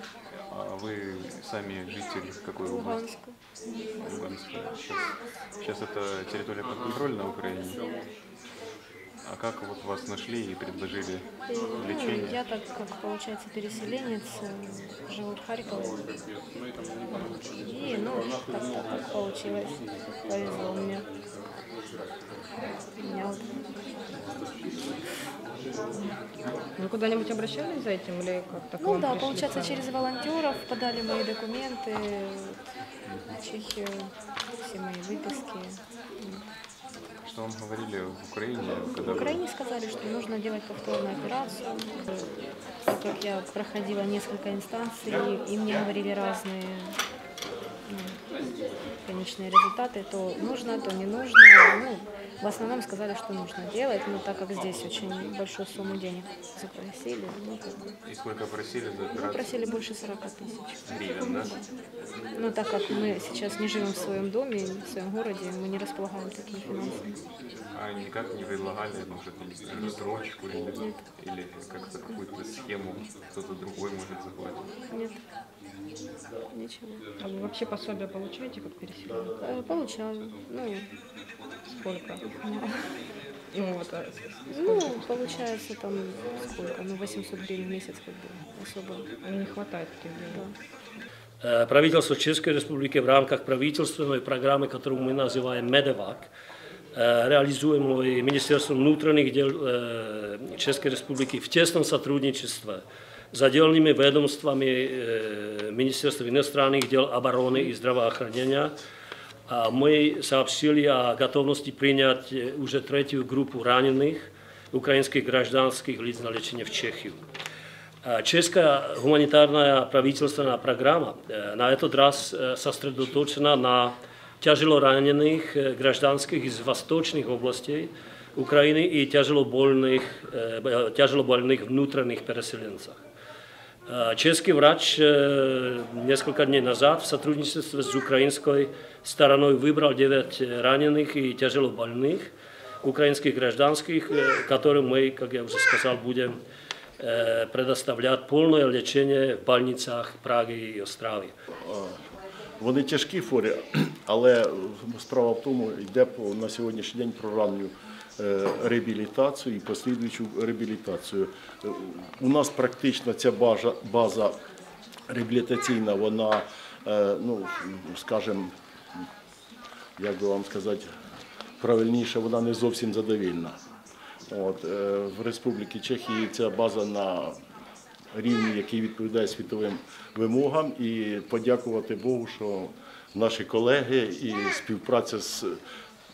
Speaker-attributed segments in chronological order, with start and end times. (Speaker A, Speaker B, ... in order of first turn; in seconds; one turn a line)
Speaker A: 0.4-3.1
Speaker B: 2.6-3.3
Speaker A: 4.0-7.8
Speaker A: 9.2-12.4
Speaker B: 11.5-16.0
Speaker B: 17.1-21.1
Speaker B: 23.0-23.5
Speaker C: 26.8-29.9
Speaker B: 28.8-32.6
Speaker A: 33.0-33.4
Speaker B: 33.3-36.5
Speaker A: 37.2-39.4
Speaker B: 39.0-47.0
Speaker B: 47.9-48.2
Speaker B: 49.0-57.9
Speaker A: 58.0-59.6
Speaker B: 59.1-61.5
Speaker A: 60.9-61.6
Speaker B: 62.3-67.2
Speaker A: 67.7-74.7
Speaker B: 74.9-75.2
Speaker B: 76.5-77.0
Speaker C: 77.2-79.3
Speaker B: 79.4-80.9
Speaker C: 81.7-82.2
Speaker B: 82.4-82.7
Speaker C: 83.5-85.4
Speaker B: 84.5-89.1
Speaker C: 89.2-90.4
Speaker D: 91.4-96.3
Speaker D: 96.9-108.8
Speaker D: 109.5-117.2
Speaker D: 118.0-133.0
Speaker D: 133.9-142.3
Speaker D: 142.8-146.4
Speaker D: 147.0-151.3
Speaker E: 151.6-152.0
Speaker E: 152.6-164.3
Speaker E: 165.1-168.5
Speaker E: 170.0-170.9
Speaker E: 171.6-173.6
Speaker E: 174.3-177.4
Speaker E: 178.1-185.6